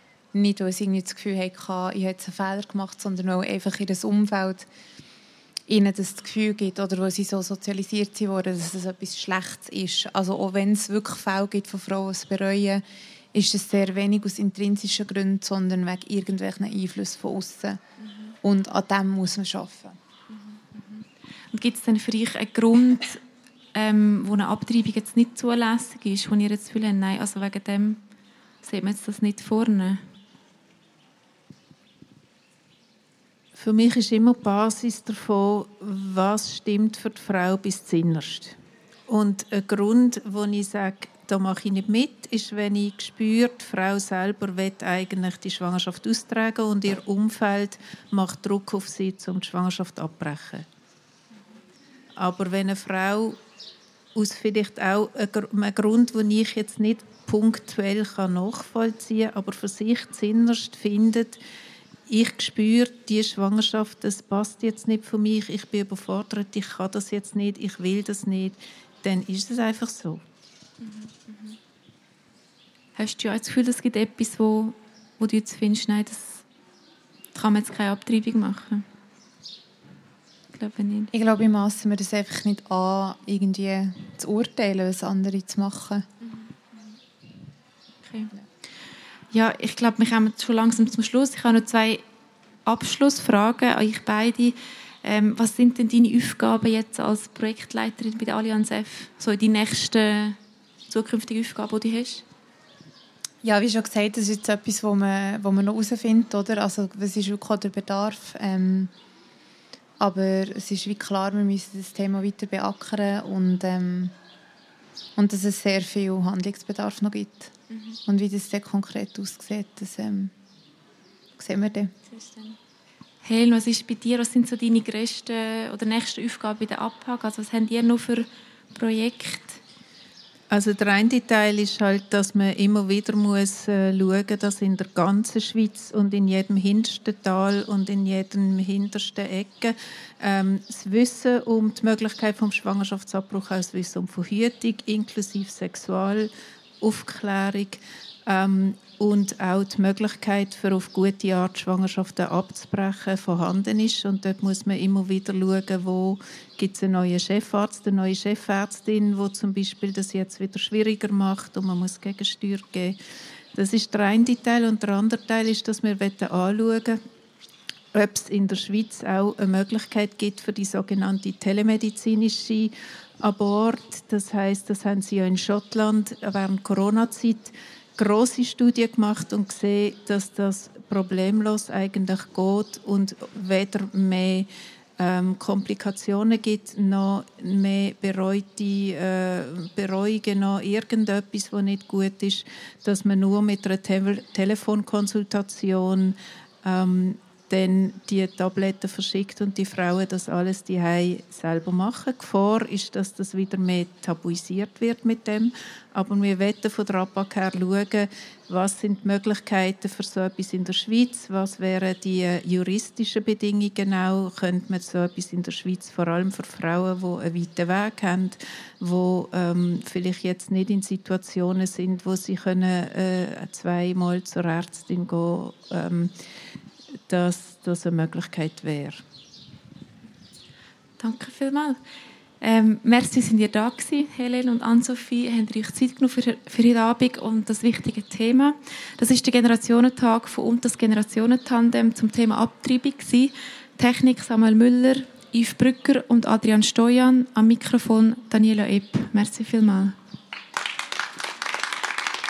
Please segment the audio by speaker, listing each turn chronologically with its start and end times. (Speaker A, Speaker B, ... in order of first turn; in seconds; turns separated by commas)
Speaker A: 0.3-4.7, Speaker A: 5.7-17.8, Speaker B: 18.0-18.3, Speaker A: 18.4-20.0, Speaker B: 20.3-23.2, Speaker B: 23.7-28.0, Speaker B: 28.6-30.0, Speaker C: 33.5-38.5, Speaker C: 39.1-50.6, Speaker C: 52.2-53.4, Speaker C: 54.1-61.4, Speaker C: 62.1-70.2, Speaker B: 70.8-71.6, Speaker B: 73.0-76.4, Speaker B: 77.3-78.8, Speaker B: 80.5-81.1, Speaker A: 81.1-86.0, Speaker B: 86.2-86.9, Speaker B: 88.0-88.3, Speaker B: 89.3-92.0, Speaker B: 92.7-100.4, Speaker B: 100.9-102.2, Speaker A: 103.4-108.9, Speaker A: 110.0-114.1, Speaker A: 115.2-117.5, Speaker B: 117.7-118.0, Speaker A: 118.0-120.3, Speaker A: 121.4-121.9, Speaker B: 122.1-122.6, Speaker B: 123.2-129.6, Speaker C: 130.5-146.3, Speaker C: 146.8-163.0, Speaker C: 163.5-167.0, Speaker C: 167.9-184.5, Speaker C: 185.0-226.1, Speaker C: 227.1-229.0, Speaker B: 231.0-231.8, Speaker B: 232.4-249.9